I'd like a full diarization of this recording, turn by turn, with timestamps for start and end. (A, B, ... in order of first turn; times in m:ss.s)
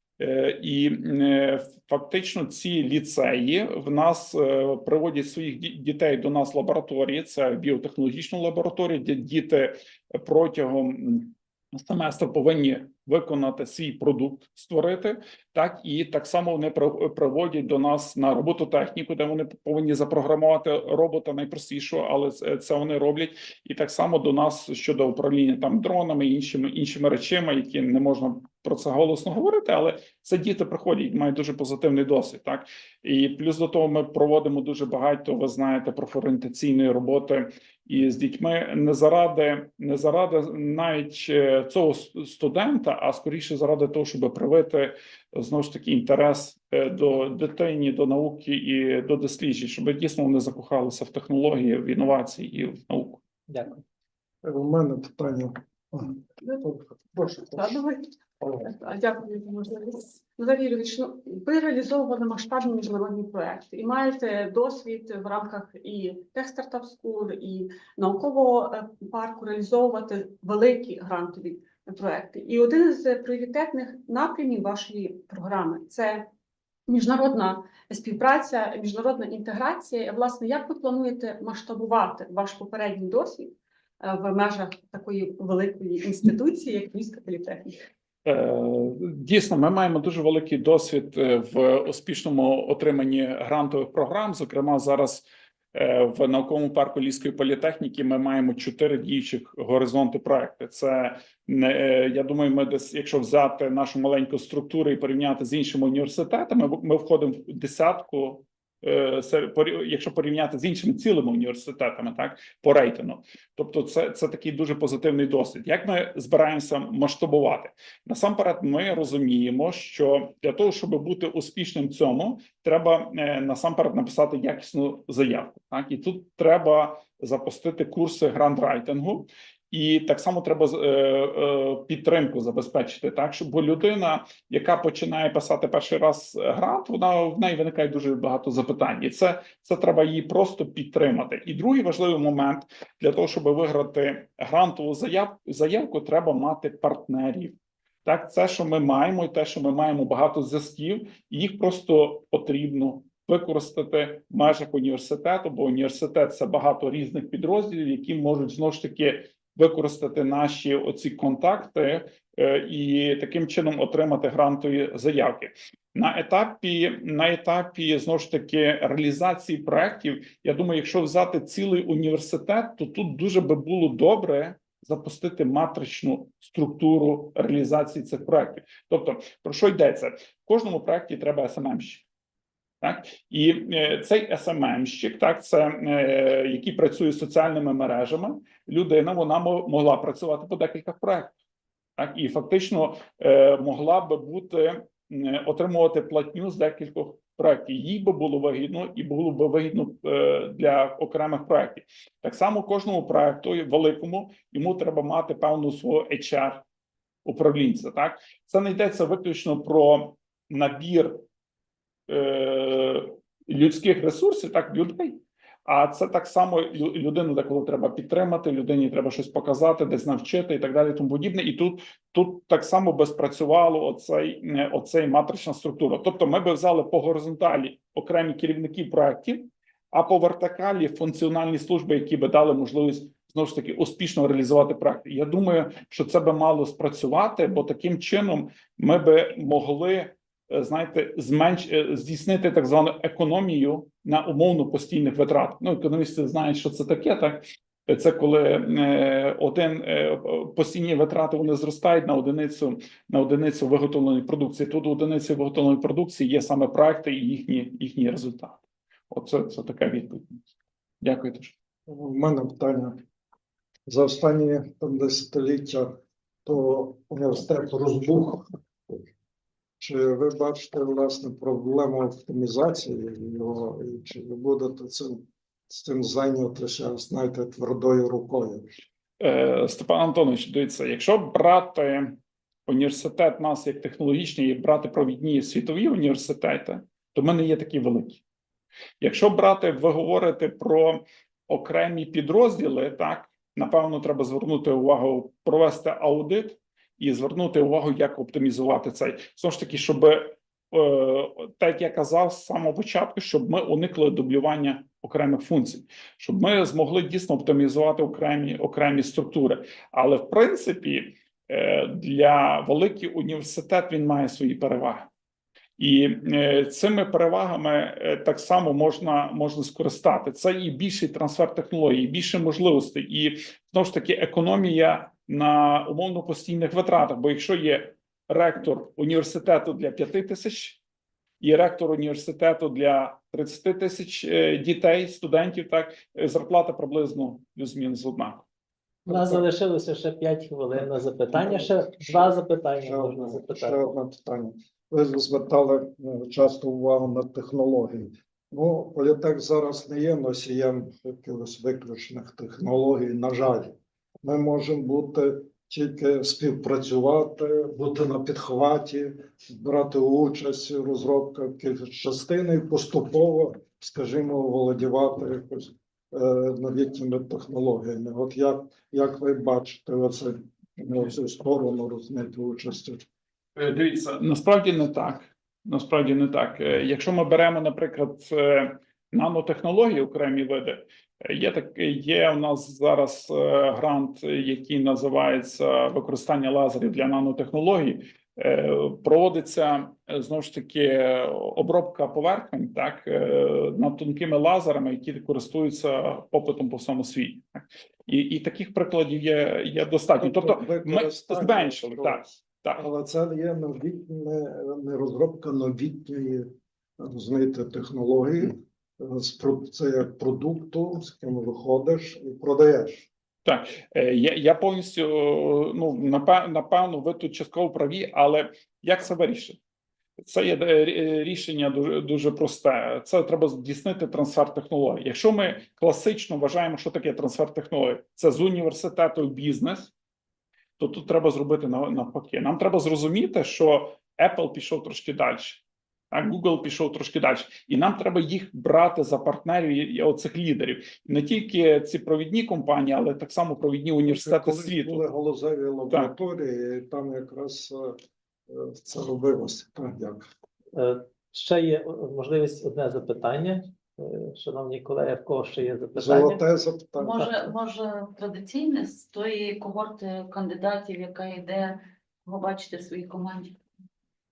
0:00.2-0:53.2 A
0:53.5-0:53.8 B
0:54.4-0:57.6 C
0:57.5-1:16.3 D
1:16.9-1:27.8 D
1:28.3-3:02.0 A
3:02.8-3:11.3 A
3:12.0-3:26.6 A
3:27.2-3:31.2 A
3:32.1-4:20.4 A
4:21.0-4:21.6 A
4:21.9-4:23.0 C
4:23.9-4:25.9 C
4:26.5-4:28.5 C
4:29.8-4:38.6 C
4:39.2-4:48.2 A
4:49.0-5:15.1 A
5:15.8-5:30.8 A
5:31.4-5:38.5 A
5:39.1-5:39.5 C
5:39.1-5:43.9 B
5:41.0-6:13.1 C
6:13.6-6:42.8 A
6:40.2-6:46.5 C
6:47.0-6:53.1 C
6:53.5-6:59.6 A
7:00.2-7:09.9 A
7:10.8-7:25.0 A
7:24.1-7:28.0 C
7:28.5-7:30.3 C
7:30.7-7:36.4 B
7:36.0-7:37.5 C
7:37.0-7:43.6 E